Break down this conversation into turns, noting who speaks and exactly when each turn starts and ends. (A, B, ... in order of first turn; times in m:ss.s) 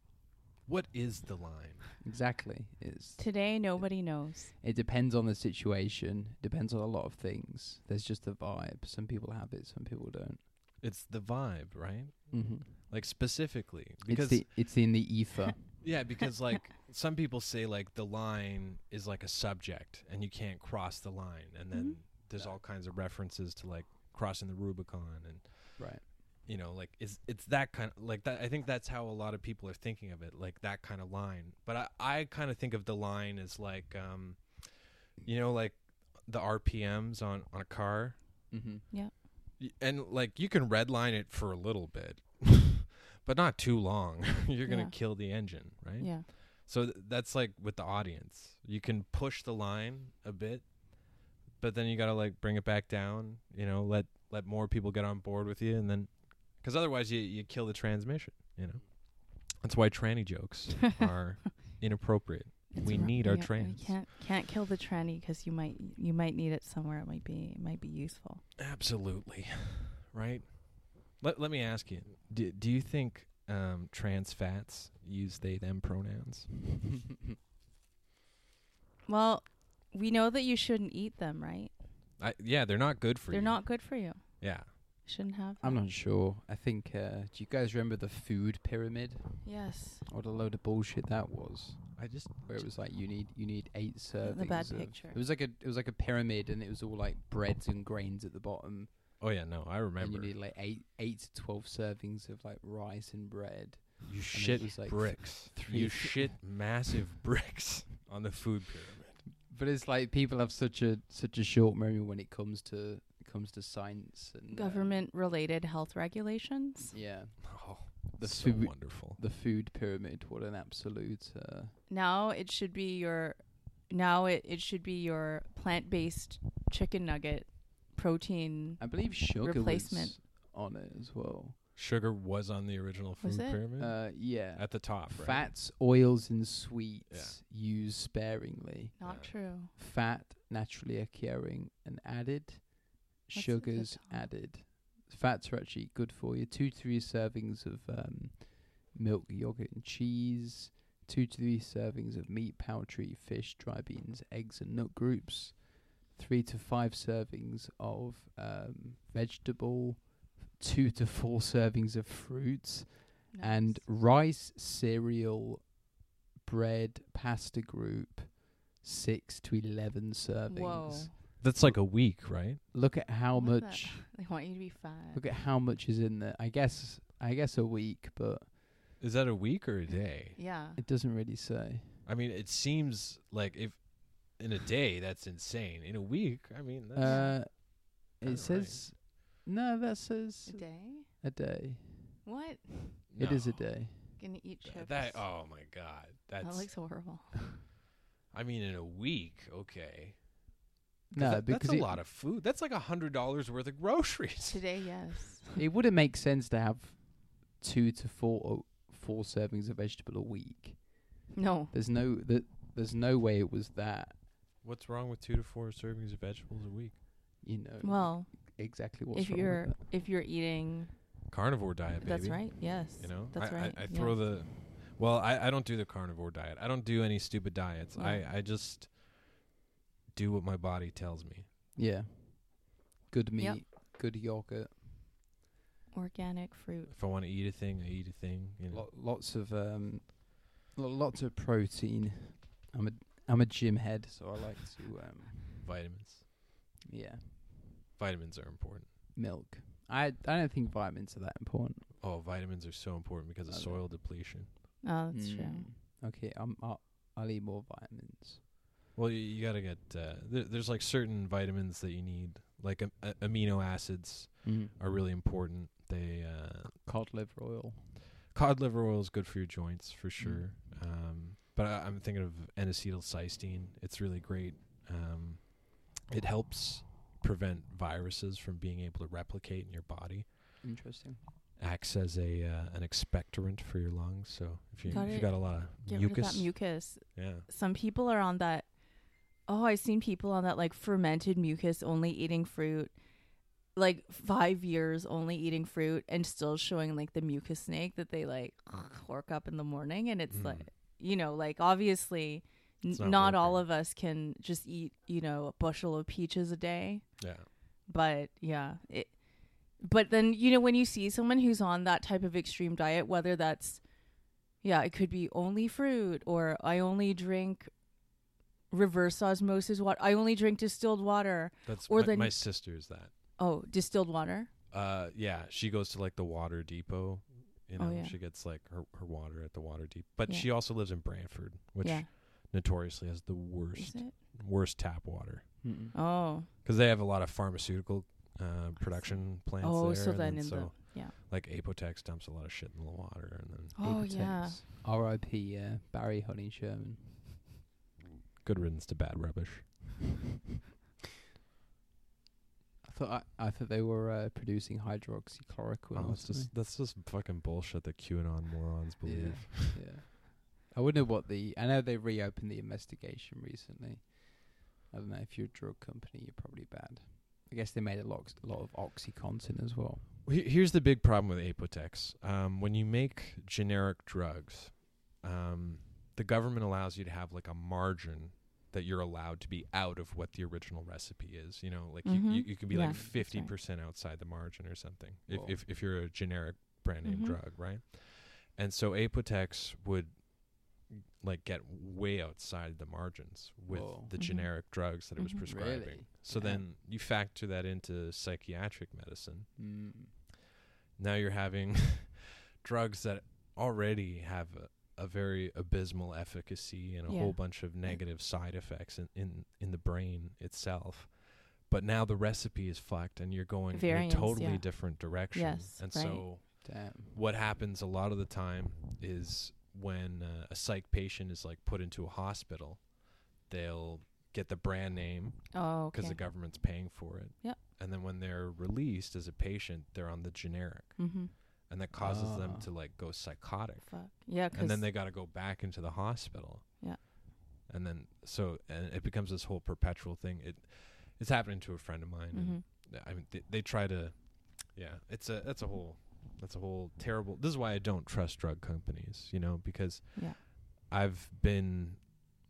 0:00.7-0:01.9 A
0:02.0-0:10.4 B
0:03.2-0:04.5 C
0:10.8-0:14.5 A
0:12.3-0:12.7 B
0:14.1-0:15.8 B
0:15.8-0:38.2 A
0:21.7-0:22.0 C
0:22.3-0:22.6 B
0:25.8-0:26.1 B
0:38.5-0:38.9 B
0:39.6-1:04.0 A
0:44.7-0:45.2 C
0:46.0-0:46.3 C
1:02.8-1:08.4 C
1:08.6-1:16.7 A
1:19.1-1:21.7 C
1:22.2-1:24.8 A
1:23.3-1:25.8 C
1:25.6-1:29.5 B
1:29.4-1:30.0 C
1:30.1-1:39.2 B
1:32.0-1:32.7 A
1:34.2-1:35.2 C
1:39.2-1:40.4 A
1:40.0-1:46.4 B
1:44.0-1:49.2 A
1:49.4-1:55.0 B
1:54.5-1:57.0 C
1:56.9-2:01.8 B
1:57.4-1:59.2 A
2:01.9-2:10.2 C
2:08.8-2:11.6 B
2:11.8-2:15.5 A
2:13.2-2:13.6 C
2:13.8-2:45.8 B
2:17.1-2:17.4 A
2:19.0-2:19.7 C
2:19.0-2:19.3 A
2:23.3-2:24.3 C
2:43.3-2:43.8 C
2:46.4-2:54.1 B
2:50.5-2:51.2 C
2:51.4-2:52.6 A
2:53.3-2:55.2 C
2:55.1-2:58.5 B
2:59.0-3:00.4 A
3:00.4-3:00.8 C
3:00.8-3:02.0 B
3:02.0-3:08.8 A
3:07.0-3:12.2 B
3:07.0-3:07.4 C
3:10.5-3:11.1 C
3:12.2-3:13.1 C
3:13.1-3:13.8 A
3:13.2-3:14.2 B
3:14.2-3:15.3 C
3:14.6-3:16.9 A
3:16.4-3:17.5 C
3:18.3-3:20.5 A
3:21.1-3:22.0 B
3:21.2-3:25.1 A
3:24.5-3:25.6 C
3:25.6-3:34.2 B
3:31.3-3:31.7 C
3:34.6-3:37.0 A
3:37.4-3:39.8 B
3:37.8-3:41.3 C
3:41.3-3:49.3 A
3:42.0-3:44.2 C
3:48.0-3:48.3 C
3:50.1-3:51.5 A
3:51.8-3:54.8 B
3:55.9-3:56.9 C
3:56.9-3:58.9 A
3:58.7-4:05.6 B
4:05.5-4:06.3 A
4:06.9-4:07.6 B
4:07.7-4:08.9 A
4:09.1-4:11.9 B
4:12.0-4:14.6 A
4:13.5-4:13.9 B
4:14.8-4:15.7 C
4:15.1-4:18.5 B
4:19.0-4:26.8 A
4:24.4-4:24.8 B
4:26.8-4:28.0 B
4:28.3-4:40.6 A
4:30.2-4:30.5 B
4:40.6-4:41.2 B
4:41.6-4:47.5 A
4:44.9-4:48.8 C
4:49.4-4:53.0 C
4:53.7-5:07.2 C
5:00.3-5:00.7 A
5:02.9-5:03.6 A
5:07.2-5:07.5 A
5:07.9-5:13.8 C
5:14.6-5:17.7 C
5:18.7-5:24.5 C
5:21.7-5:23.2 A
5:24.7-5:35.6 A
5:27.8-5:28.2 C
5:31.8-5:32.1 C
5:33.8-5:34.1 C
5:35.6-5:36.0 B
5:35.9-5:36.5 C
5:36.6-5:43.8 A
5:38.9-5:41.1 C
5:43.8-5:44.6 C
5:43.8-5:47.5 B
5:48.4-5:50.0 A
5:52.8-5:56.5 B
5:56.0-5:59.8 A
5:59.0-6:10.1 B
6:10.2-6:39.7 A
6:22.0-6:23.5 C
6:22.8-6:23.1 B
6:25.3-6:25.6 B
6:27.0-6:27.4 C
6:33.7-6:34.2 B
6:34.2-6:35.4 C
6:35.5-6:36.6 B
6:39.6-6:40.2 B
6:41.0-7:32.1 A
6:47.1-6:48.0 C
6:53.7-6:56.3 C
6:56.6-6:57.2 B
7:05.5-7:06.2 C
7:11.0-7:11.3 C
7:12.0-7:12.7 B
7:13.8-7:14.8 C
7:22.3-7:22.6 C
7:30.2-7:30.4 C